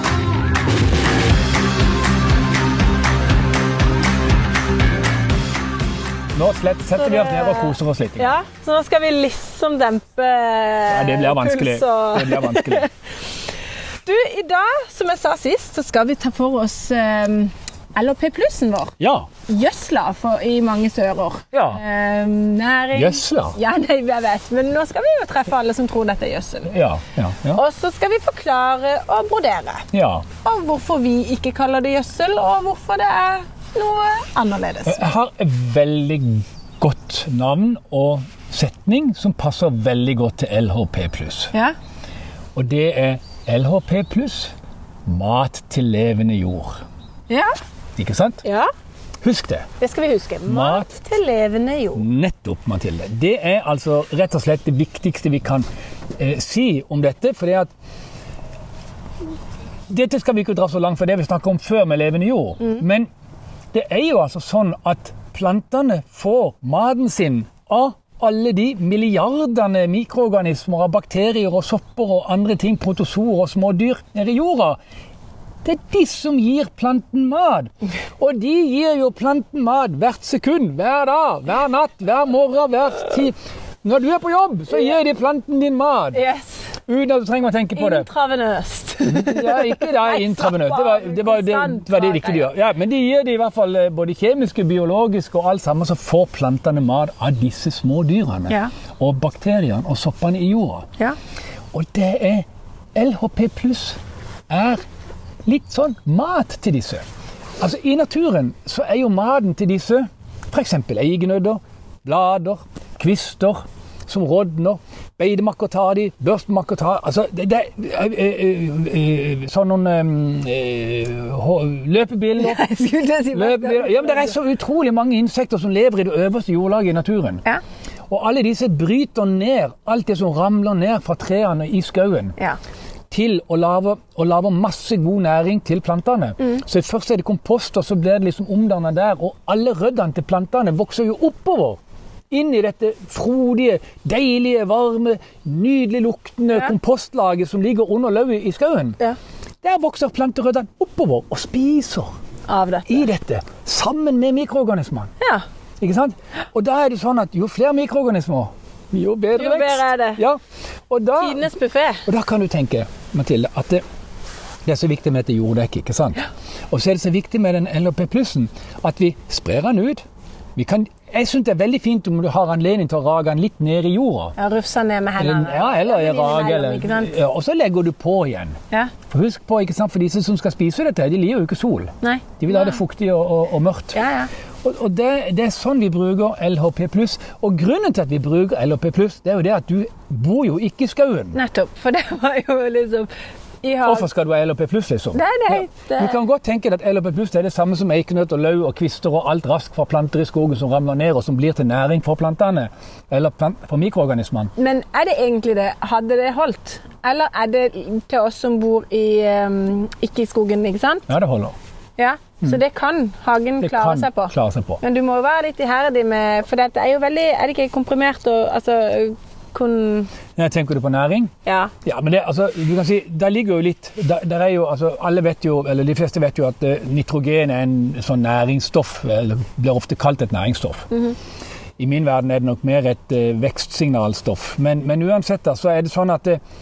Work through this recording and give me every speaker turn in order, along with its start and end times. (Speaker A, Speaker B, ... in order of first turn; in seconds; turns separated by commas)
Speaker A: 6.3-8.3, Speaker B: 7.0-12.9, Speaker A: 10.9-12.9, Speaker B: 14.0-18.9, Speaker A: 19.0-19.3, Speaker B: 19.4-26.7, Speaker A: 21.5-21.8, Speaker A: 22.9-23.6, Speaker A: 26.7-27.6, Speaker B: 27.5-29.8, Speaker A: 29.9-30.2, Speaker B: 30.4-35.0, Speaker A: 34.9-41.5, Speaker A: 42.5-44.5, Speaker A: 45.0-46.8, Speaker A: 48.0-48.4, Speaker B: 48.4-48.7, Speaker A: 49.2-49.6, Speaker B: 49.8-52.0, Speaker A: 50.5-50.9, Speaker A: 51.9-55.6, Speaker A: 56.2-57.7, Speaker A: 59.9-63.1, Speaker A: 63.7-74.8, Speaker A: 75.6-86.2, Speaker B: 86.1-86.7, Speaker A: 86.9-88.1, Speaker B: 87.7-92.5, Speaker A: 89.1-100.9, Speaker A: 101.7-104.0, Speaker A: 104.5-104.8, Speaker A: 105.4-107.0, Speaker A: 107.6-122.6, Speaker B: 122.4-124.3, Speaker A: 123.3-127.4, Speaker A: 128.1-132.3, Speaker A: 133.1-141.8, Speaker A: 142.3-149.0, Speaker A: 149.6-152.1, Speaker B: 152.5-153.1, Speaker A: 152.9-155.1, Speaker A: 155.8-161.5, Speaker B: 159.3-160.2, Speaker B: 161.2-162.1, Speaker A: 162.1-163.8, Speaker A: 164.7-170.0, Speaker A: 170.6-174.3, Speaker B: 174.4-177.1, Speaker A: 175.2-178.6, Speaker A: 179.1-184.0, Speaker B: 182.0-182.8, Speaker B: 183.9-184.3, Speaker A: 184.6-191.4, Speaker B: 191.3-193.1, Speaker B: 193.6-194.1, Speaker A: 193.8-204.5, Speaker B: 195.1-196.2, Speaker B: 204.6-211.1, Speaker A: 211.1-211.5, Speaker B: 212.0-220.1, Speaker A: 213.6-214.8, Speaker A: 220.3-221.3, Speaker B: 221.4-221.7, Speaker A: 221.8-230.9, Speaker A: 231.8-236.4